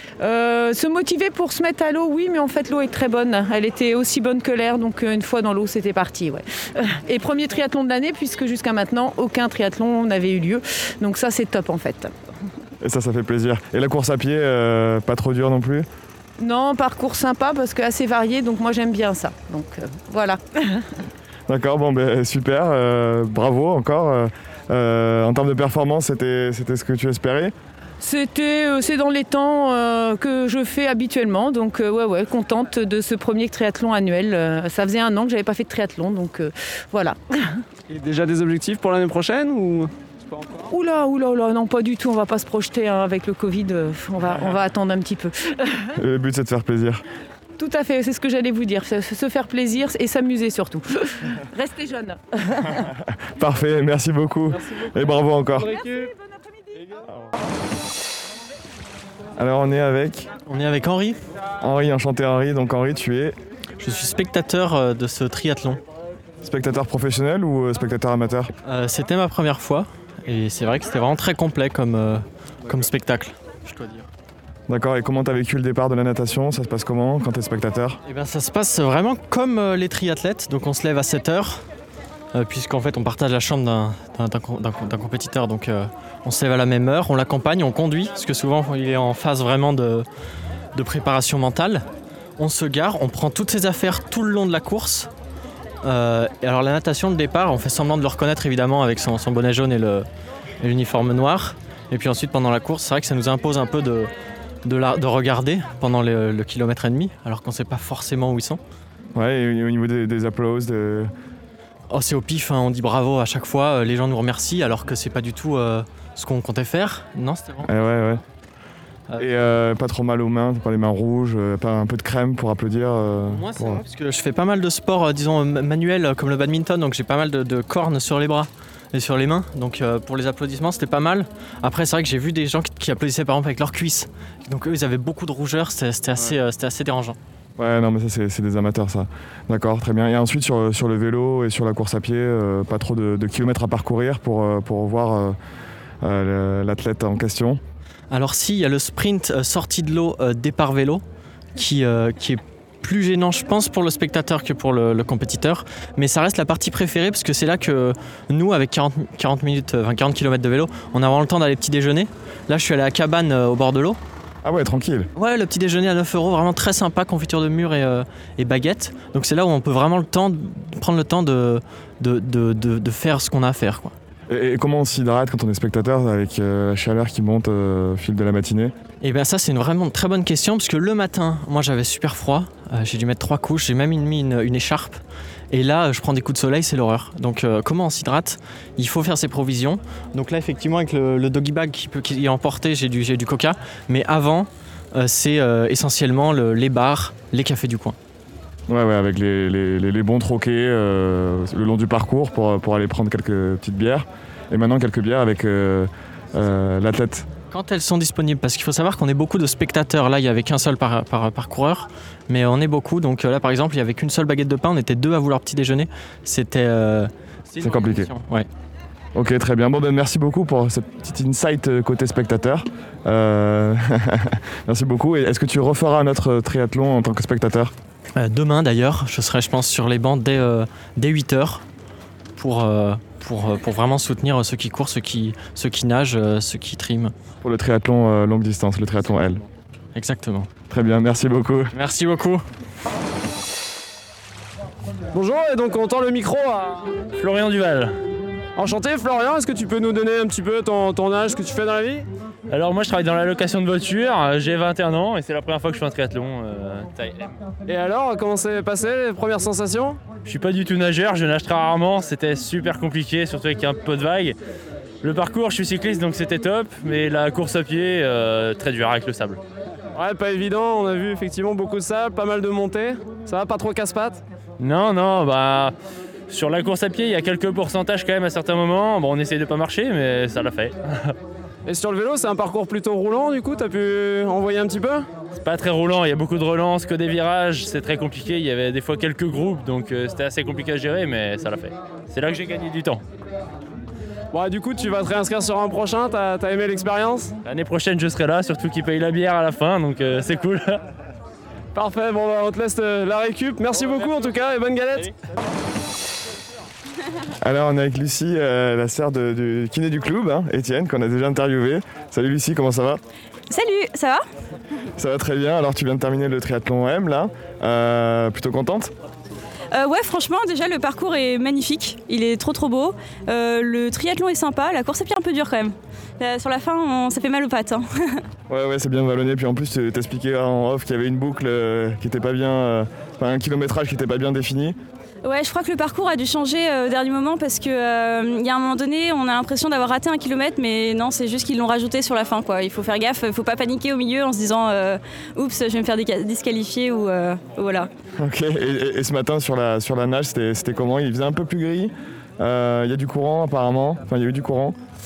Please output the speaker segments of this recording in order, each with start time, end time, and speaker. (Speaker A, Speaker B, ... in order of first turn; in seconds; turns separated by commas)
Speaker A: 0.2-12.2, Speaker B: 12.8-15.9, Speaker A: 16.4-20.9, Speaker B: 21.5-27.5, Speaker A: 28.0-37.6, Speaker C: 37.9-39.9, Speaker A: 40.7-45.9, Speaker B: 46.0-47.0, Speaker A: 47.6-52.9, Speaker B: 53.4-55.8, Speaker C: 55.6-56.1, Speaker B: 59.4-60.3, Speaker D: 60.5-61.2, Speaker B: 61.6-63.4, Speaker D: 63.8-65.8, Speaker B: 66.4-68.5, Speaker D: 68.7-74.1, Speaker B: 74.7-78.0, Speaker D: 78.1-81.6, Speaker D: 82.3-90.1, Speaker D: 90.8-91.8, Speaker D: 92.4-95.1, Speaker D: 95.8-100.1, Speaker D: 100.6-104.1, Speaker D: 104.7-108.6, Speaker B: 109.2-111.1, Speaker D: 111.9-117.7, Speaker B: 117.7-118.2, Speaker B: 119.2-123.8, Speaker D: 123.3-137.2, Speaker B: 137.6-145.4, Speaker B: 146.0-147.6, Speaker D: 148.1-151.0, Speaker D: 151.6-164.0, Speaker B: 164.4-165.1, Speaker D: 165.2-173.9, Speaker B: 174.3-178.7, Speaker D: 179.0-198.0, Speaker B: 198.7-207.3, Speaker D: 207.5-218.5, Speaker B: 217.6-218.1, Speaker B: 219.2-227.7, Speaker D: 228.2-231.7, Speaker D: 232.4-237.1, Speaker B: 237.4-239.4, Speaker D: 239.9-240.5, Speaker B: 240.7-241.8, Speaker D: 241.7-242.4, Speaker C: 245.1-246.9, Speaker E: 247.2-247.9, Speaker C: 248.6-252.1, Speaker E: 252.5-257.4, Speaker C: 257.7-260.0, Speaker E: 260.2-264.4, Speaker E: 265.0-269.4, Speaker C: 269.9-274.2, Speaker E: 274.6-275.8, Speaker E: 276.3-281.2, Speaker C: 281.7-285.1, Speaker E: 285.3-293.0, Speaker C: 294.3-297.3, Speaker E: 297.4-300.8, Speaker C: 301.7-305.1, Speaker B: 307.4-313.0, Speaker F: 313.5-314.2, Speaker B: 315.0-318.9, Speaker F: 319.7-328.2, Speaker B: 328.5-334.8, Speaker F: 335.2-347.9, Speaker B: 348.2-354.8